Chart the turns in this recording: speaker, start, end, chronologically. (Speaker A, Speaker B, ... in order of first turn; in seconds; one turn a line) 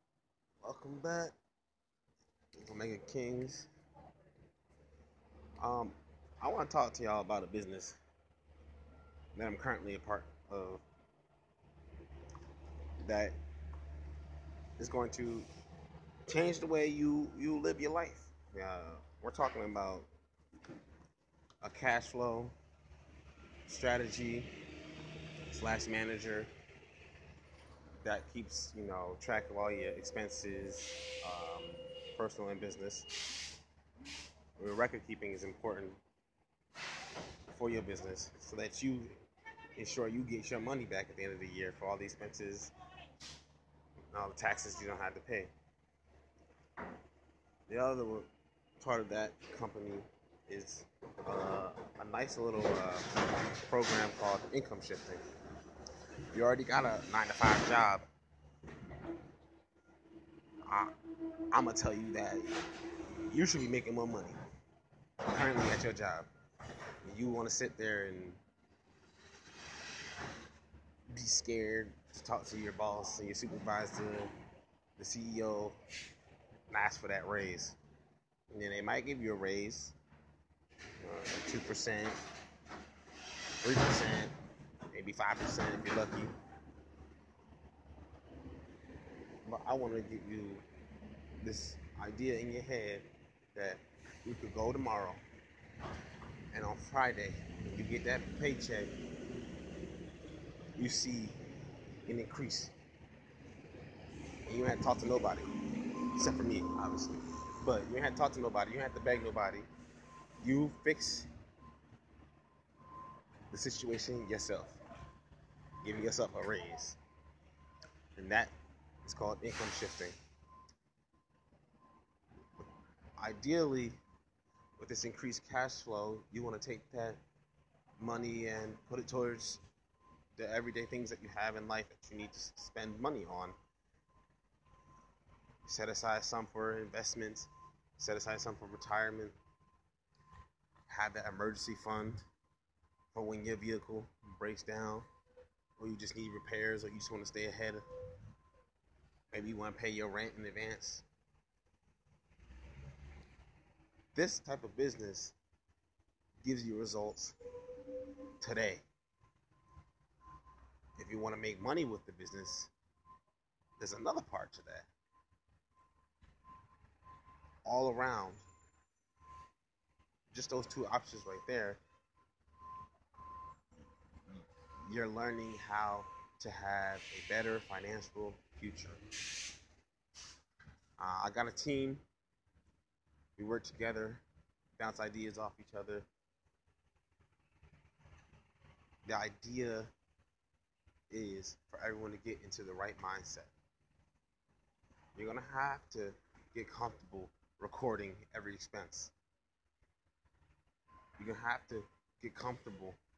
Speaker A: 0.6-1.4
Speaker A: 2.6-3.7
Speaker A: 5.6-8.0
Speaker A: 9.3-10.8
Speaker A: 13.0-13.4
Speaker A: 14.8-15.5
Speaker A: 16.3-20.1
Speaker A: 21.6-22.5
Speaker A: 23.7-24.5
Speaker A: 25.5-26.5
Speaker A: 28.0-33.1
Speaker A: 34.6-36.0
Speaker A: 37.5-39.2
Speaker A: 39.8-42.7
Speaker A: 44.1-45.5
Speaker A: 47.7-48.3
Speaker A: 48.8-55.2
Speaker A: 56.3-58.0
Speaker A: 60.6-60.9
Speaker A: 61.5-64.4
Speaker A: 65.3-66.3
Speaker A: 67.0-68.4
Speaker A: 71.1-74.3
Speaker A: 75.0-75.8
Speaker A: 76.7-77.8
Speaker A: 78.5-80.0
Speaker A: 81.0-82.2
Speaker A: 83.6-84.3
Speaker A: 84.9-86.3
Speaker A: 89.4-90.6
Speaker A: 91.4-95.2
Speaker A: 96.5-98.9
Speaker A: 100.8-101.4
Speaker A: 102.0-102.7
Speaker A: 104.5-105.5
Speaker A: 106.1-109.7
Speaker A: 110.4-111.3
Speaker A: 113.5-114.8
Speaker A: 115.8-117.0
Speaker A: 118.2-118.5
Speaker A: 119.0-120.2
Speaker A: 123.2-124.0
Speaker A: 124.8-127.2
Speaker A: 128.0-129.6
Speaker A: 130.4-133.6
Speaker A: 135.6-139.3
Speaker A: 140.9-142.2
Speaker A: 143.1-145.1
Speaker A: 145.8-147.8
Speaker A: 149.3-151.0
Speaker A: 154.1-155.3
Speaker A: 156.4-158.8
Speaker A: 161.0-162.7
Speaker A: 163.8-164.9
Speaker A: 167.6-168.4
Speaker A: 170.3-171.8
Speaker A: 174.8-179.0
Speaker A: 181.0-182.0
Speaker A: 183.4-184.2
Speaker A: 184.8-186.1
Speaker A: 189.0-189.9
Speaker A: 191.1-193.5
Speaker A: 195.1-199.1
Speaker A: 201.2-203.0